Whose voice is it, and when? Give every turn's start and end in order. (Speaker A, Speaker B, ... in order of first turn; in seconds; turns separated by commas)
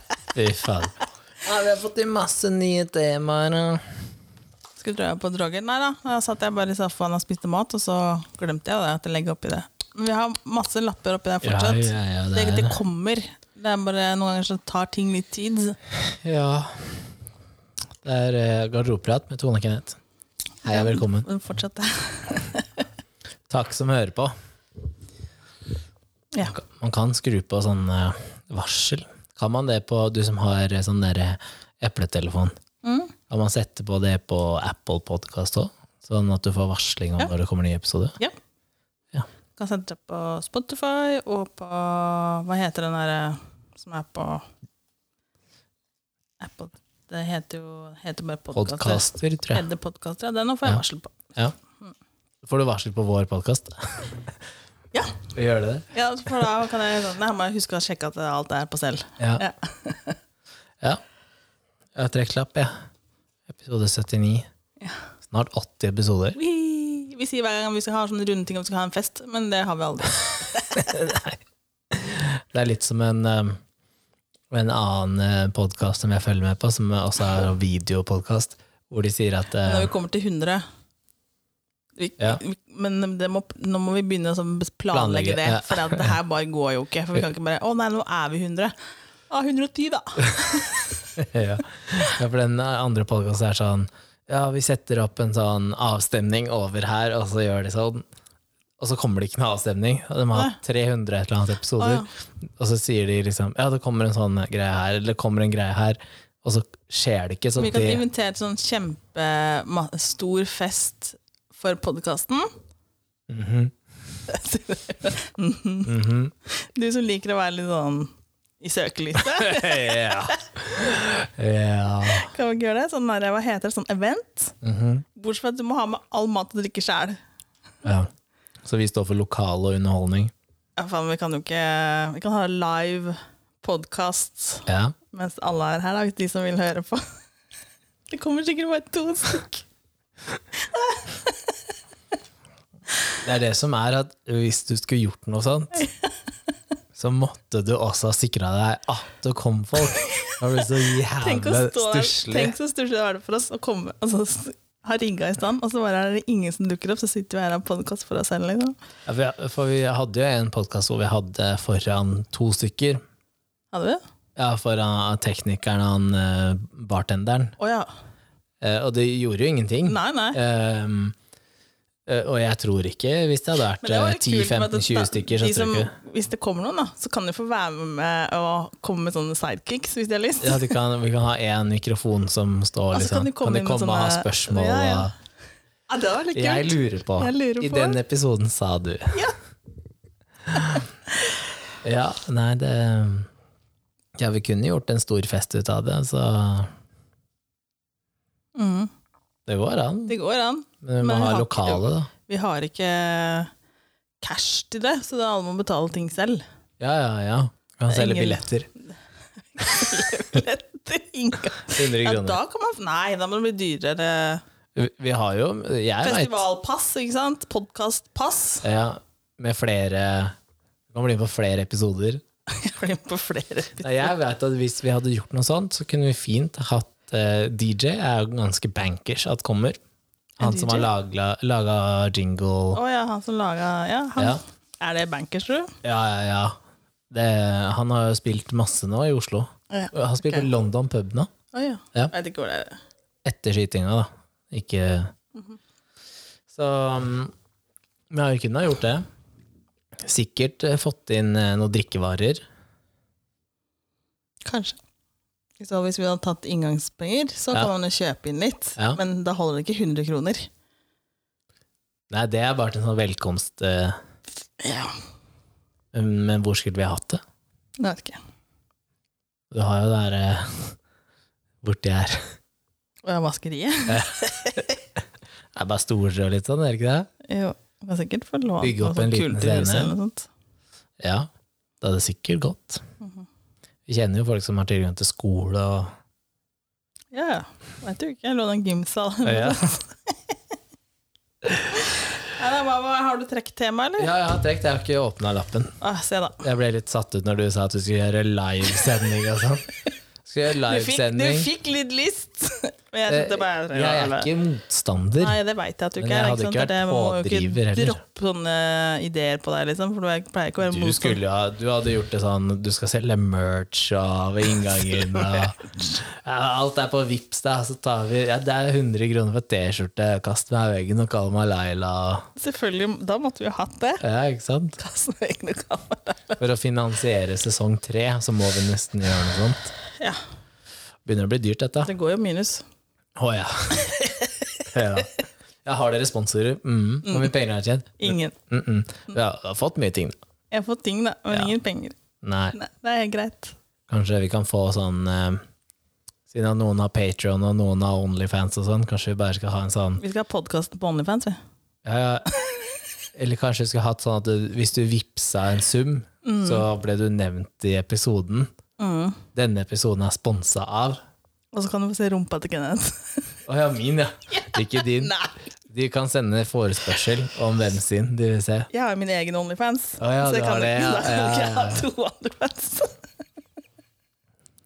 Speaker A: 0.3-3.9, Speaker B: 4.8-15.8, Speaker A: 11.4-12.8, Speaker A: 16.1-17.1, Speaker A: 18.0-20.0, Speaker A: 20.6-21.3, Speaker B: 20.6-22.9, Speaker A: 23.5-24.3, Speaker A: 26.6-32.6, Speaker B: 32.8-33.1, Speaker A: 33.3-38.2, Speaker B: 39.6-44.5, Speaker B: 46.4-51.3, Speaker A: 48.5-49.6, Speaker A: 52.4-54.3, Speaker B: 54.9-55.2, Speaker A: 55.3-55.9, Speaker B: 55.9-60.2, Speaker A: 59.2-59.4, Speaker A: 62.0-62.7, Speaker A: 63.5-64.5, Speaker A: 65.3-66.4, Speaker B: 66.3-71.0, Speaker A: 70.8-71.4, Speaker A: 71.9-73.6, Speaker A: 74.5-79.9, Speaker B: 79.6-80.7, Speaker B: 82.0-88.8, Speaker A: 84.9-86.2, Speaker B: 89.3-91.1, Speaker A: 91.2-98.0, Speaker A: 98.8-102.1, Speaker B: 101.8-102.1, Speaker A: 102.6-108.0, Speaker B: 107.6-112.5, Speaker A: 113.3-113.8, Speaker B: 114.3-115.9, Speaker A: 115.8-116.3, Speaker B: 116.5-120.4, Speaker A: 119.2-122.3, Speaker B: 122.1-124.6, Speaker A: 124.6-125.0, Speaker B: 125.1-127.2, Speaker A: 127.8-128.1, Speaker A: 128.6-130.3, Speaker B: 130.8-137.1, Speaker A: 134.7-134.9, Speaker B: 138.1-139.7, Speaker B: 140.6-141.6, Speaker A: 143.2-145.9, Speaker B: 145.8-146.1, Speaker A: 147.0-152.5, Speaker B: 149.9-158.8, Speaker A: 159.1-163.0, Speaker B: 163.7-164.0, Speaker A: 164.4-167.6, Speaker B: 167.6-167.9, Speaker A: 168.6-171.2, Speaker B: 169.9-170.4, Speaker A: 172.1-175.9, Speaker B: 173.8-180.8, Speaker A: 180.4-185.1, Speaker B: 182.9-185.1, Speaker B: 185.9-188.0, Speaker A: 186.3-189.3, Speaker A: 190.5-190.8, Speaker B: 190.6-191.3, Speaker A: 191.8-193.3, Speaker A: 194.2-196.7, Speaker B: 198.6-198.9, Speaker A: 199.5-200.2, Speaker B: 200.1-203.5, Speaker A: 200.8-202.1, Speaker B: 204.2-206.4, Speaker A: 206.8-208.7, Speaker B: 207.9-208.4, Speaker B: 209.5-214.4, Speaker A: 211.7-212.4, Speaker A: 214.8-216.4, Speaker B: 216.0-218.7, Speaker A: 218.6-220.4, Speaker A: 220.9-222.2, Speaker B: 222.5-224.1, Speaker A: 223.8-229.8, Speaker B: 230.4-230.9, Speaker A: 230.4-232.8, Speaker B: 232.7-235.8, Speaker A: 235.8-236.6, Speaker A: 237.1-241.3, Speaker B: 239.7-240.5, Speaker B: 241.5-242.8, Speaker A: 243.2-245.1, Speaker A: 246.5-247.3, Speaker A: 248.1-249.1, Speaker A: 250.0-252.4, Speaker B: 254.4-254.8, Speaker B: 255.6-260.5, Speaker A: 262.1-264.0, Speaker B: 264.6-264.9, Speaker A: 265.9-267.2, Speaker B: 267.8-268.2, Speaker A: 269.5-270.8, Speaker A: 271.6-272.3, Speaker B: 273.1-274.7, Speaker A: 273.9-274.6, Speaker A: 275.6-277.1, Speaker B: 277.2-280.3, Speaker A: 278.6-279.9, Speaker A: 281.0-281.3, Speaker A: 281.8-282.8, Speaker B: 283.0-283.3, Speaker A: 283.9-285.9, Speaker B: 287.1-290.4, Speaker A: 289.2-289.6, Speaker B: 291.7-294.1, Speaker A: 294.0-295.8, Speaker B: 295.8-296.4, Speaker A: 296.4-299.7, Speaker A: 300.2-301.5, Speaker B: 300.6-304.3, Speaker A: 303.1-305.4, Speaker B: 305.2-311.2, Speaker A: 306.0-308.0, Speaker A: 310.6-322.3, Speaker B: 322.4-324.0, Speaker A: 324.0-324.8, Speaker B: 324.8-326.4, Speaker A: 326.4-329.7, Speaker A: 331.1-331.9, Speaker B: 331.8-332.6, Speaker A: 333.2-334.0, Speaker B: 333.7-334.7, Speaker A: 334.7-335.1, Speaker A: 335.6-340.1, Speaker B: 337.1-337.3, Speaker B: 338.0-338.4, Speaker B: 340.5-342.0, Speaker A: 342.2-342.6, Speaker B: 342.5-343.6, Speaker A: 343.9-345.4, Speaker A: 346.3-350.0, Speaker B: 350.0-351.4, Speaker A: 351.9-352.3, Speaker B: 352.3-352.7, Speaker A: 353.1-358.5, Speaker B: 356.2-356.7, Speaker B: 358.8-359.2, Speaker A: 359.4-361.0, Speaker B: 361.5-363.4, Speaker A: 363.5-365.1, Speaker B: 364.3-365.4, Speaker A: 365.7-368.7, Speaker B: 368.7-373.0, Speaker A: 370.0-371.9